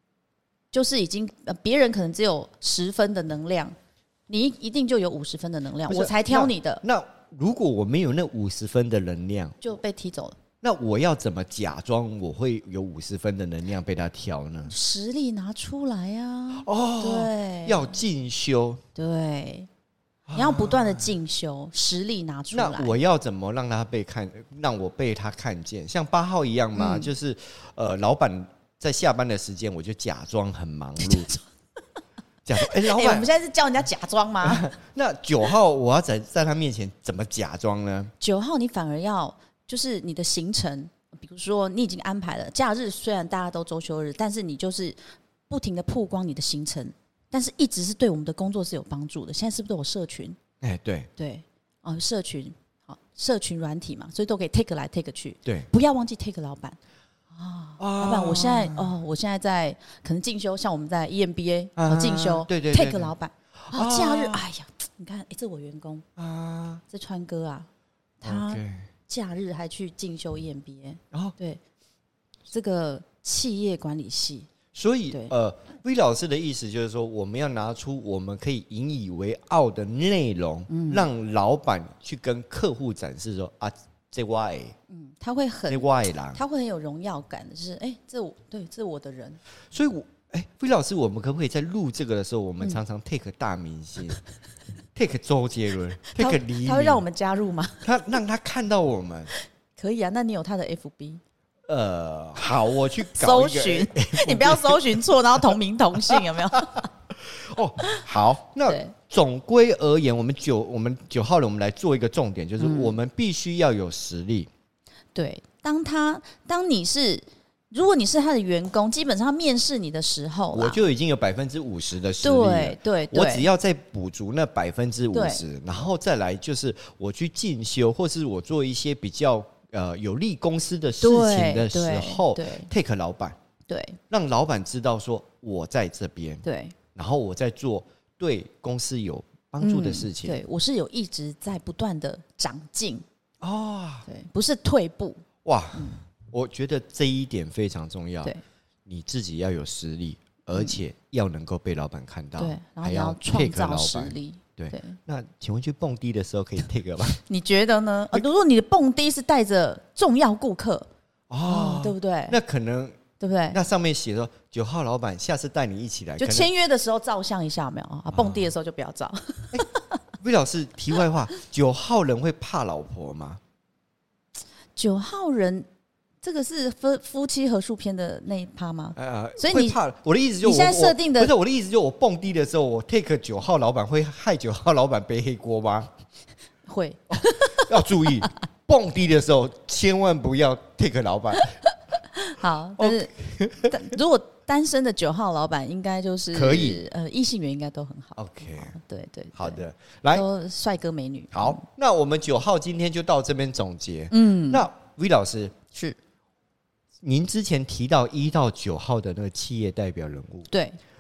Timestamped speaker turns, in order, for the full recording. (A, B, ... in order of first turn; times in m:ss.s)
0:00.7-0:03.7 A
0:04.3-0:06.8 A
0:05.9-0:09.6 B
0:09.6-0:10.4 A
0:10.6-0:14.7 B
0:14.7-0:18.0 A
0:16.6-0:18.8 B
0:19.0-0:19.7 A
0:20.3-0:21.1 B
0:20.3-0:22.9 A
0:22.5-0:31.3 B
0:26.8-0:27.1 A
0:31.0-0:31.4 A
0:32.4-0:33.3 B
0:32.6-0:34.7 A
0:34.4-0:38.1 B
0:38.2-0:45.0 A
0:45.5-0:50.4 A
0:50.6-0:51.1 B
0:51.2-0:56.8 A
0:57.3-1:06.0 A
0:57.8-0:58.9 B
1:01.8-1:04.4 B
1:06.2-1:06.8 B
1:06.9-1:07.7 A
1:08.2-1:11.6 A
1:08.2-1:08.9 B
1:12.5-1:14.5 A
1:14.7-1:24.8 B
1:20.7-1:21.1 A
1:24.9-1:29.4 A
1:25.7-1:26.4 B
1:29.7-1:34.2 B
1:35.0-1:37.0 B
1:36.2-1:37.9 A
1:37.8-1:39.3 B
1:39.8-1:41.2 A
1:41.7-1:45.0 B
1:43.1-1:46.9 A
1:46.1-1:54.5 B
1:48.7-1:48.9 A
1:52.6-1:53.0 A
1:55.2-2:00.8 A
2:00.5-2:13.4 B
2:02.2-2:03.5 A
2:05.1-2:05.4 A
2:11.0-2:12.7 A
2:13.7-2:14.0 A
2:14.1-2:20.4 B
2:16.4-2:16.8 A
2:19.6-2:23.0 A
2:23.4-2:24.1 B
2:24.1-2:25.2 A
2:25.4-2:28.3 B
2:28.9-2:37.2 B
2:32.4-2:35.0 A
2:37.3-2:40.9 A
2:41.3-2:43.0 B
2:41.5-2:42.4 A
2:43.2-2:43.6 A
2:43.5-2:46.5 B
2:46.2-2:49.8 A
2:48.1-2:48.5 B
2:50.2-2:53.4 B
2:54.8-2:55.7 A
2:56.2-2:59.8 A
2:59.0-3:05.9 B
3:00.4-3:01.3 A
3:06.7-3:07.8 A
3:07.1-3:11.6 B
3:12.1-3:13.1 A
3:12.8-3:13.9 B
3:13.7-3:21.6 A
3:16.3-3:16.8 B
3:18.2-3:18.8 B
3:19.4-3:20.2 B
3:21.3-3:25.6 B
3:24.1-3:24.7 A
3:27.0-3:30.5 B
3:30.5-3:30.8 A